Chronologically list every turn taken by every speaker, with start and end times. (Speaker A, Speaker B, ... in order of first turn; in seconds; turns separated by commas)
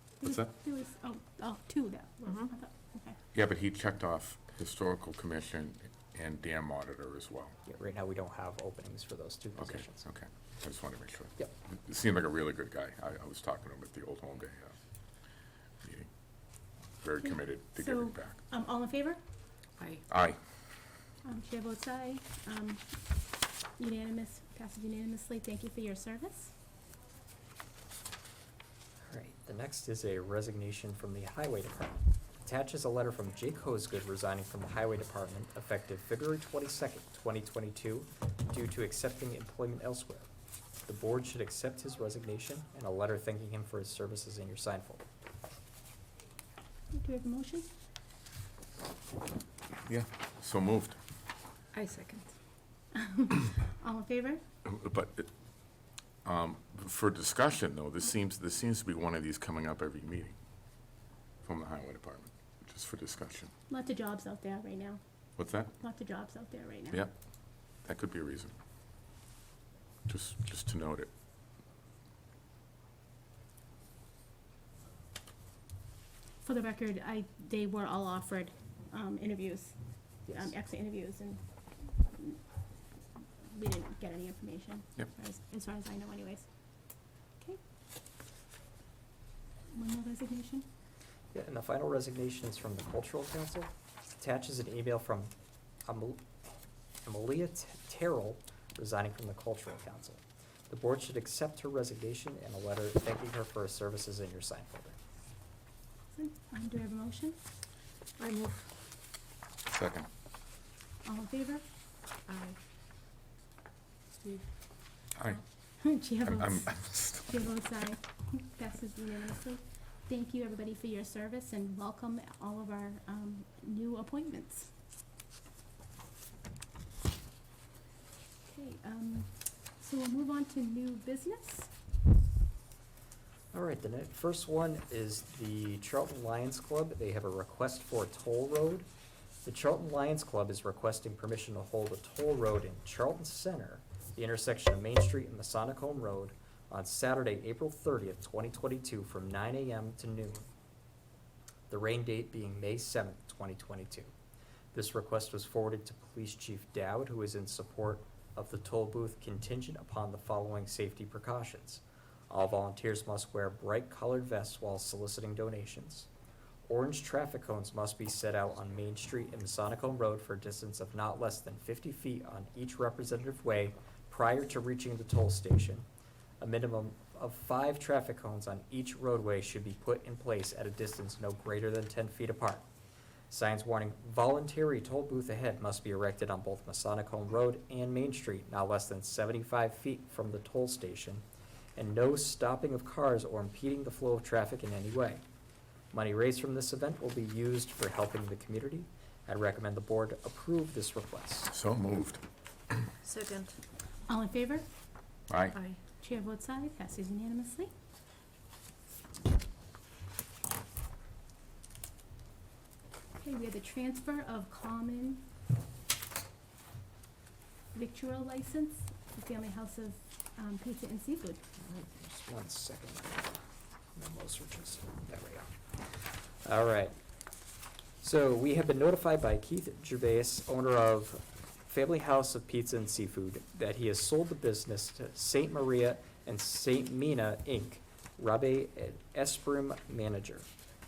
Speaker A: 0.2-3.2, Speaker B: 0.2-0.5, Speaker B: 3.3-7.5, Speaker C: 7.7-10.0, Speaker B: 9.6-14.7, Speaker B: 15.8-16.1, Speaker B: 17.0-18.3, Speaker A: 17.7-19.2, Speaker D: 19.8-20.0, Speaker B: 20.1-20.4, Speaker A: 21.2-22.8, Speaker A: 23.8-26.5, Speaker C: 29.1-40.3, Speaker C: 40.9-45.0, Speaker A: 46.9-47.7, Speaker B: 49.9-51.0, Speaker D: 51.7-52.3, Speaker A: 52.9-54.4, Speaker B: 54.6-55.3, Speaker B: 56.2-60.3, Speaker B: 61.4-63.5, Speaker A: 63.7-65.0, Speaker B: 65.4-65.7, Speaker A: 65.8-67.1, Speaker B: 67.8-68.5, Speaker B: 70.1-71.1, Speaker A: 76.4-82.4, Speaker A: 83.4-86.5, Speaker A: 89.7-90.7, Speaker C: 91.3-95.3, Speaker C: 95.8-96.2, Speaker C: 97.0-104.9, Speaker A: 106.1-107.4, Speaker D: 108.2-108.7, Speaker B: 109.7-110.1, Speaker A: 111.0-111.6, Speaker D: 112.3-112.5, Speaker D: 114.2-114.4, Speaker B: 115.2-115.4, Speaker A: 115.8-124.7, Speaker B: 116.2-117.4, Speaker A: 128.4-131.7, Speaker C: 133.5-138.9, Speaker C: 139.4-150.4, Speaker C: 151.7-154.1, Speaker C: 154.7-166.1, Speaker C: 166.7-175.8, Speaker C: 176.4-182.6, Speaker C: 183.3-191.2, Speaker C: 191.8-195.2, Speaker C: 195.9-201.5, Speaker B: 201.5-202.2, Speaker D: 203.0-203.6, Speaker A: 204.1-204.7, Speaker B: 205.3-205.6, Speaker D: 205.5-205.8, Speaker A: 206.0-207.7, Speaker A: 213.2-215.2, Speaker A: 217.7-221.4, Speaker C: 221.6-223.4, Speaker C: 223.9-226.9, Speaker C: 228.0-240.4